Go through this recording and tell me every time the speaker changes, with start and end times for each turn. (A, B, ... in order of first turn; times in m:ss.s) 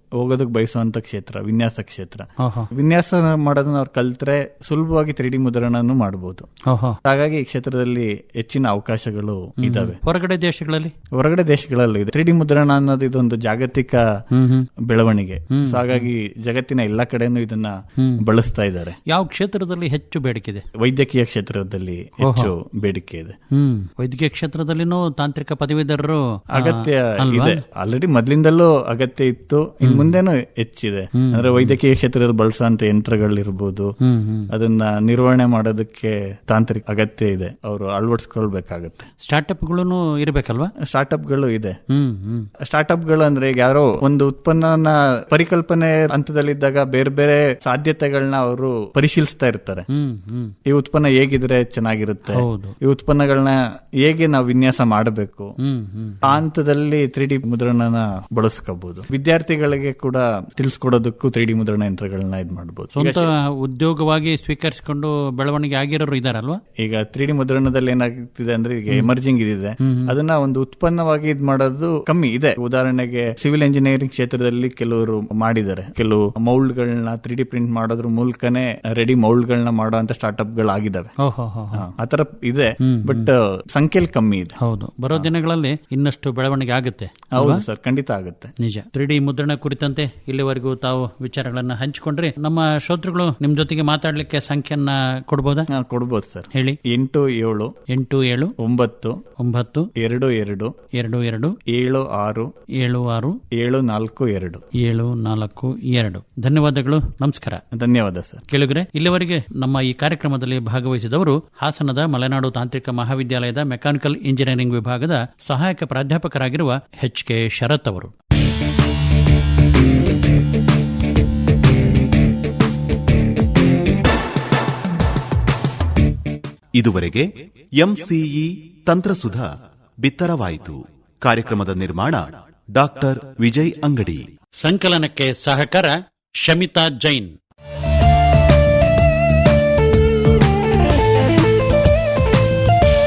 0:00.2-0:06.5 A
0:02.4-0:02.7 B
0:06.7-0:07.0 B
0:07.0-0:10.0 A
0:09.6-0:10.9 B
0:11.1-0:14.0 A
0:14.3-0:14.7 B
0:14.9-0:19.0 A
0:15.5-0:16.1 B
0:18.0-0:18.2 B
0:19.1-0:20.6 B
0:20.8-0:23.4 A
0:22.2-0:22.5 B
0:23.5-0:27.6 B
0:26.6-0:33.9 A
0:29.8-0:30.2 B
0:31.2-0:31.8 B
0:34.0-0:34.5 B
0:34.5-0:39.1 A
0:39.2-0:40.7 B
0:40.8-0:41.8 A
0:41.9-0:42.5 B
0:42.6-0:49.9 A
0:49.9-0:50.5 B
0:50.7-0:55.5 A
0:52.3-0:52.7 B
0:55.6-0:56.4 B
0:56.2-1:03.3 A
1:02.9-1:06.6 B
1:06.8-1:21.1 A
1:09.8-1:10.2 B
1:21.2-1:21.9 B
1:21.7-1:24.6 A
1:22.9-1:23.3 B
1:24.6-1:27.6 B
1:27.3-1:28.5 A
1:28.6-1:35.7 B
1:35.7-1:37.8 A
1:37.9-1:38.5 B
1:38.6-1:39.2 A
1:39.4-1:39.9 B
1:40.0-1:40.9 A
1:40.9-1:41.6 B
1:41.7-1:42.5 A
1:42.8-1:43.4 B
1:43.5-1:44.7 A
1:44.7-1:47.6 B
1:47.7-1:48.4 A
1:48.5-1:58.1 B
2:06.8-2:09.5 C
2:10.0-2:14.3 C
2:14.6-2:17.4 B